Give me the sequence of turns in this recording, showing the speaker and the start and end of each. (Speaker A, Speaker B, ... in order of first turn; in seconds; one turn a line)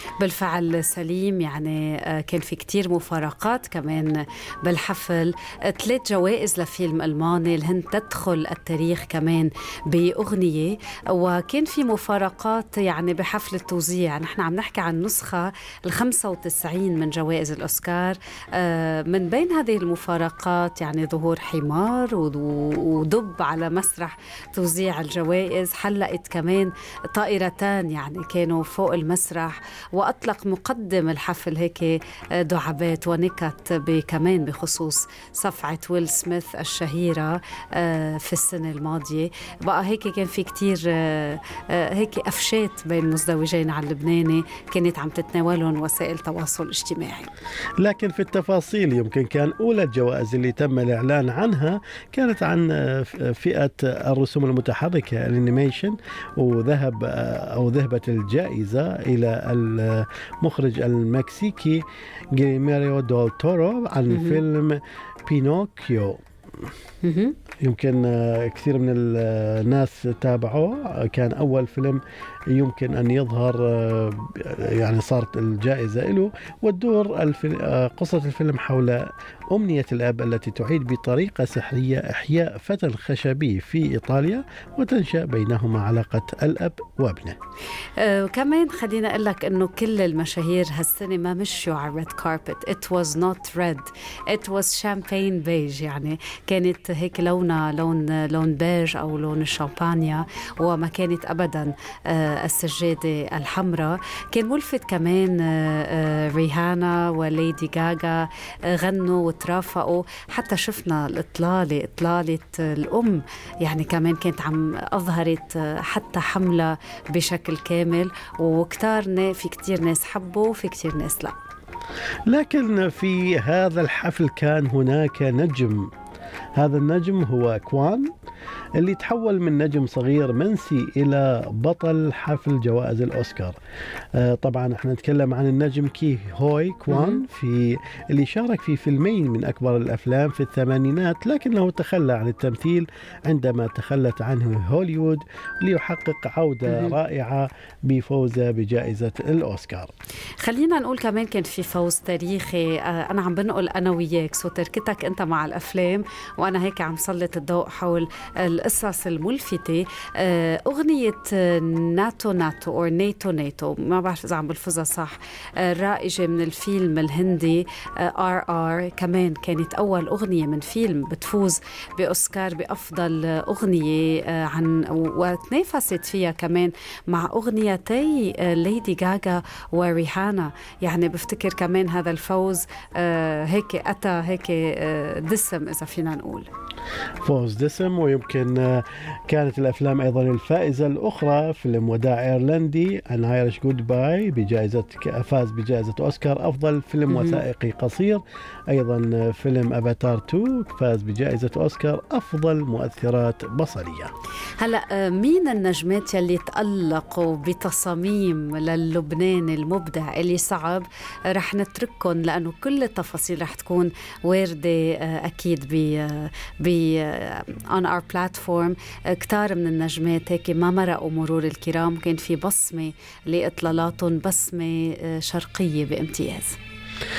Speaker A: 0.2-47.3
Speaker B: 47.8-61.8
Speaker B: 62.3-66.2
Speaker A: 64.1-64.4
Speaker A: 67.0-67.4
Speaker B: 67.6-87.4
Speaker A: 88.0-121.3
Speaker B: 122.3-125.9
Speaker B: 126.6-128.1
Speaker B: 128.8-133.6
Speaker B: 134.2-149.9
Speaker A: 136.9-137.2
Speaker A: 146.7-147.0
Speaker A: 150.4-186.5
Speaker B: 187.2-204.1
Speaker A: 197.1-197.4
Speaker A: 204.6-226.6